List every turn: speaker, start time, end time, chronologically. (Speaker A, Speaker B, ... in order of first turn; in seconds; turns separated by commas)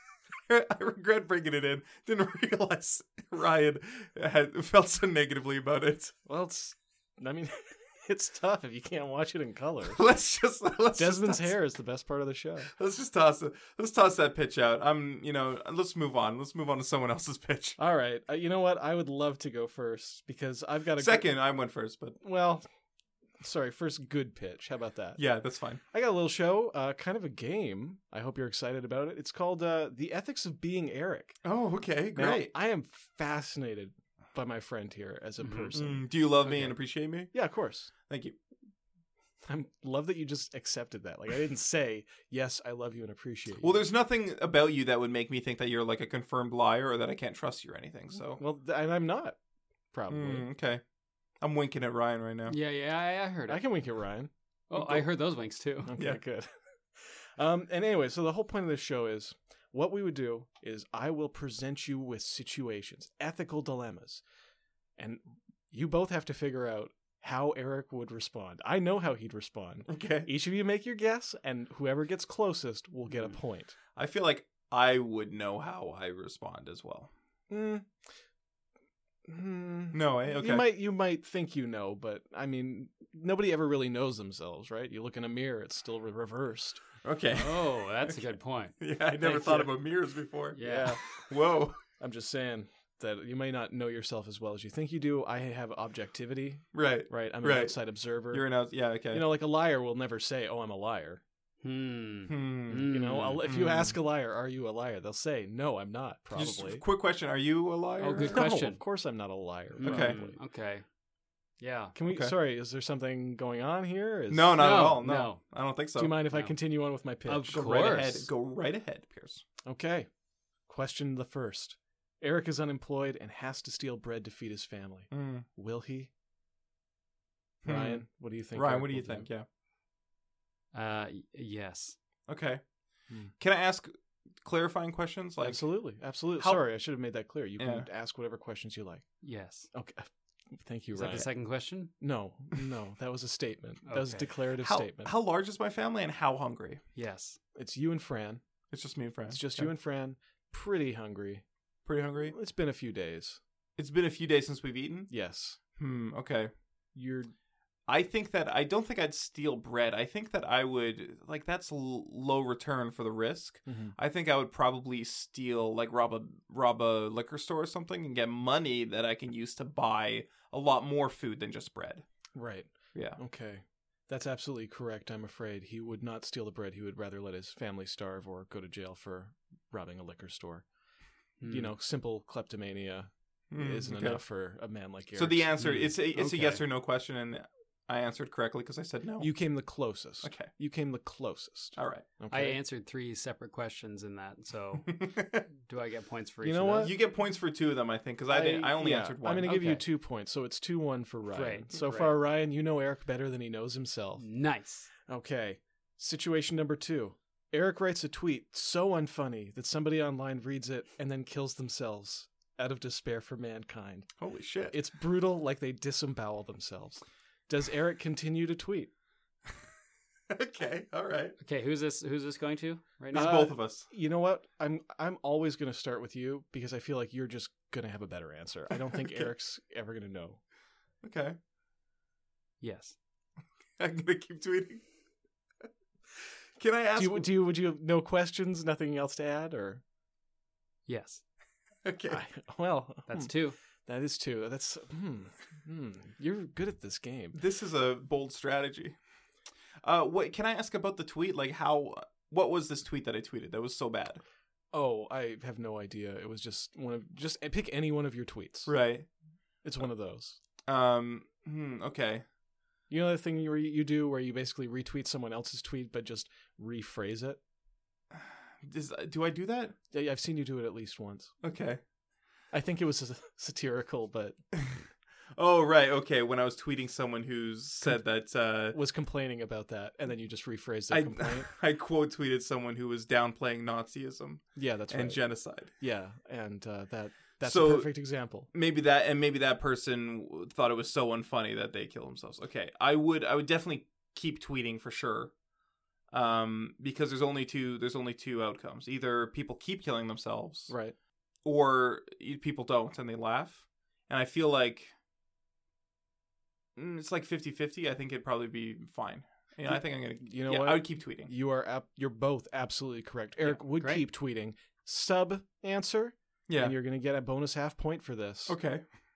Speaker A: 0.5-6.2, Speaker B: 6.2-10.0, Speaker A: 9.9-11.5, Speaker B: 10.9-12.7, Speaker A: 12.7-17.8, Speaker B: 17.8-21.4, Speaker A: 21.0-22.2, Speaker B: 22.2-22.6, Speaker B: 23.4-25.2, Speaker A: 25.2-25.8, Speaker B: 25.9-31.4, Speaker A: 31.4-32.5, Speaker B: 32.1-36.0, Speaker C: 35.4-35.7, Speaker A: 35.7-37.3, Speaker C: 36.4-36.8, Speaker B: 37.3-37.9, Speaker A: 38.1-38.3, Speaker B: 39.4-43.8, Speaker A: 43.6-48.4, Speaker B: 48.3-49.4, Speaker B: 49.9-50.5, Speaker A: 50.1-50.8, Speaker A: 51.4-52.5, Speaker C: 52.5-53.6, Speaker B: 53.5-55.0, Speaker C: 54.7-55.9, Speaker B: 55.8-64.2, Speaker B: 65.0-73.8, Speaker A: 69.9-70.3, Speaker A: 73.9-77.1, Speaker B: 77.5-77.9, Speaker B: 79.2-86.8, Speaker A: 79.9-80.7, Speaker A: 87.0-88.2, Speaker C: 87.3-88.8, Speaker A: 88.8-91.8, Speaker B: 89.2-89.7, Speaker C: 90.5-91.0, Speaker B: 90.6-91.0, Speaker B: 92.0-98.5, Speaker A: 96.7-97.7, Speaker A: 98.3-99.2, Speaker B: 99.1-101.2, Speaker C: 101.6-103.4, Speaker A: 102.3-102.9, Speaker B: 102.8-106.8, Speaker A: 103.4-104.0, Speaker A: 106.3-108.4, Speaker C: 108.0-108.8, Speaker B: 108.2-110.3, Speaker C: 109.7-110.8, Speaker A: 109.8-110.2, Speaker C: 111.6-111.9, Speaker B: 111.9-114.8, Speaker A: 114.3-116.2, Speaker C: 114.5-115.4, Speaker B: 116.0-117.6, Speaker C: 117.2-118.3, Speaker A: 117.5-119.4, Speaker B: 119.6-120.1, Speaker B: 120.7-126.1, Speaker A: 125.1-125.4, Speaker A: 127.6-129.4, Speaker B: 127.6-129.3, Speaker C: 130.7-132.0, Speaker A: 132.3-132.6, Speaker A: 133.4-135.6, Speaker B: 135.4-139.2, Speaker A: 137.6-137.9, Speaker C: 139.2-139.7, Speaker B: 139.7-141.3, Speaker C: 140.9-141.9, Speaker B: 142.0-145.1, Speaker C: 143.8-144.2, Speaker A: 144.6-146.8, Speaker C: 146.9-147.4, Speaker B: 147.5-148.4, Speaker A: 148.7-149.7, Speaker B: 149.3-151.4, Speaker A: 151.8-152.3, Speaker B: 152.2-153.4, Speaker A: 153.8-155.1, Speaker B: 155.1-155.6, Speaker A: 155.8-156.5, Speaker B: 156.9-157.3, Speaker A: 157.9-172.0, Speaker B: 163.7-163.9, Speaker B: 172.3-180.6, Speaker A: 172.9-173.2, Speaker C: 181.4-181.7, Speaker B: 181.4-185.6, Speaker A: 183.5-184.2, Speaker A: 185.1-189.3, Speaker C: 185.6-186.6, Speaker B: 189.2-192.6, Speaker A: 190.2-190.5, Speaker A: 191.8-192.0, Speaker C: 192.3-196.9, Speaker A: 194.9-195.4, Speaker B: 196.4-196.9, Speaker A: 196.8-199.6, Speaker B: 198.3-204.2, Speaker C: 199.4-199.8, Speaker C: 201.3-202.2, Speaker C: 204.2-204.9, Speaker B: 205.1-214.1, Speaker A: 214.2-214.8, Speaker B: 214.7-218.9, Speaker A: 220.3-221.3, Speaker C: 221.4-223.4, Speaker A: 223.1-223.8, Speaker B: 223.1-230.4, Speaker A: 231.0-231.4, Speaker C: 232.6-232.9, Speaker A: 233.8-234.8, Speaker A: 236.6-237.3, Speaker B: 236.9-239.8, Speaker C: 240.9-241.2, Speaker A: 241.8-242.2, Speaker B: 242.1-243.3, Speaker C: 243.1-243.6, Speaker B: 243.8-247.3, Speaker A: 247.3-248.9, Speaker A: 249.8-254.2, Speaker B: 254.7-258.7, Speaker A: 258.6-259.1, Speaker B: 259.6-260.4, Speaker A: 260.7-262.2, Speaker B: 262.9-267.4, Speaker A: 268.1-269.8, Speaker B: 269.9-271.3, Speaker A: 271.4-271.8, Speaker B: 272.5-274.4, Speaker A: 274.5-274.8, Speaker A: 275.4-278.8, Speaker B: 278.7-281.5, Speaker A: 280.9-285.7, Speaker B: 284.6-285.2, Speaker B: 285.8-288.5, Speaker A: 287.4-287.9, Speaker A: 288.5-295.3, Speaker A: 296.1-300.7, Speaker B: 300.7-300.9, Speaker A: 301.4-304.9, Speaker A: 306.8-311.3, Speaker B: 309.6-318.6, Speaker C: 313.4-314.0, Speaker A: 316.5-316.7, Speaker A: 318.5-318.8